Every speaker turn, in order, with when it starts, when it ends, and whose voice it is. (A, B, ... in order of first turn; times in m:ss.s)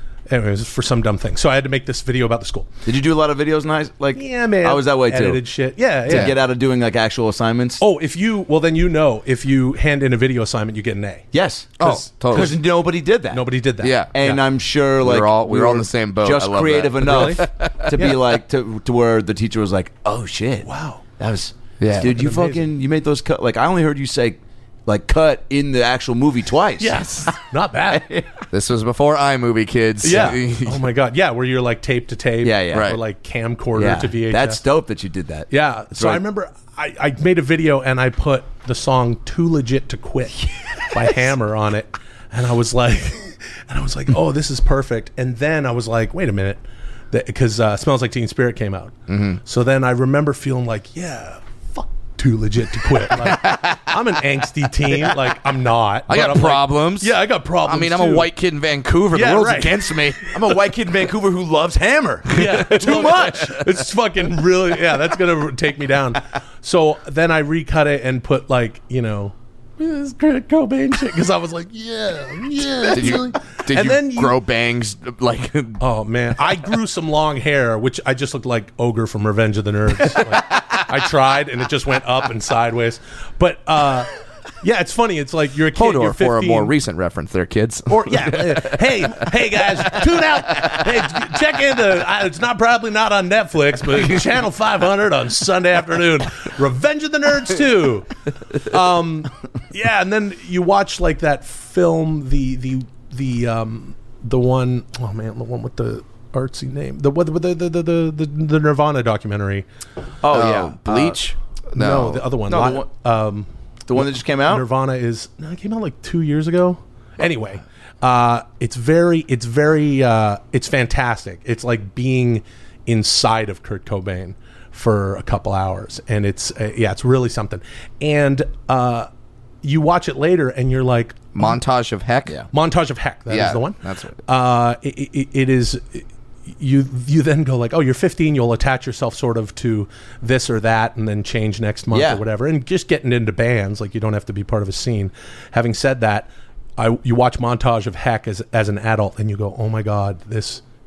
0:00.3-0:02.7 A
0:02.8-0:05.4 B
0:04.1-0:06.4 A
0:06.0-0:07.8 B
0:07.8-0:11.2 A
0:11.3-0:13.5 B
0:11.8-0:12.5 C
0:11.8-0:12.5 A
0:13.3-0:14.4 A
0:13.8-0:14.3 C
0:14.1-0:27.1 B
0:15.0-0:17.9 C
0:17.0-0:18.2 A
0:20.6-0:21.0 A
0:21.8-0:22.1 C
0:21.9-0:22.6 A
0:26.8-0:28.0 A
0:27.9-0:28.3 B
0:28.5-0:30.8 C
0:30.0-0:34.6 A
0:32.4-0:32.9 B
0:32.7-0:33.0 C
0:33.7-0:36.2 B
0:35.5-0:58.3 A
0:49.1-0:49.4 C
0:53.2-0:53.8 C
0:56.1-1:00.4 C
0:59.1-1:00.0 A
1:00.3-1:03.4 B
1:02.3-1:14.4 A
1:02.4-1:03.5 C
1:12.9-1:15.8 C
1:15.8-1:24.1 A
1:20.1-1:20.7 C
1:24.6-1:26.7 A
1:25.7-1:29.3 C
1:27.9-1:49.6 A
1:50.2-1:51.2 B
1:50.3-1:52.3 C
1:51.7-2:09.1 A
1:52.5-1:52.9 B
1:53.9-1:54.6 B
2:09.6-2:11.6 A
2:11.3-2:12.4 C
2:12.5-2:30.6 A
2:13.3-2:14.2 C
2:21.9-2:22.2 B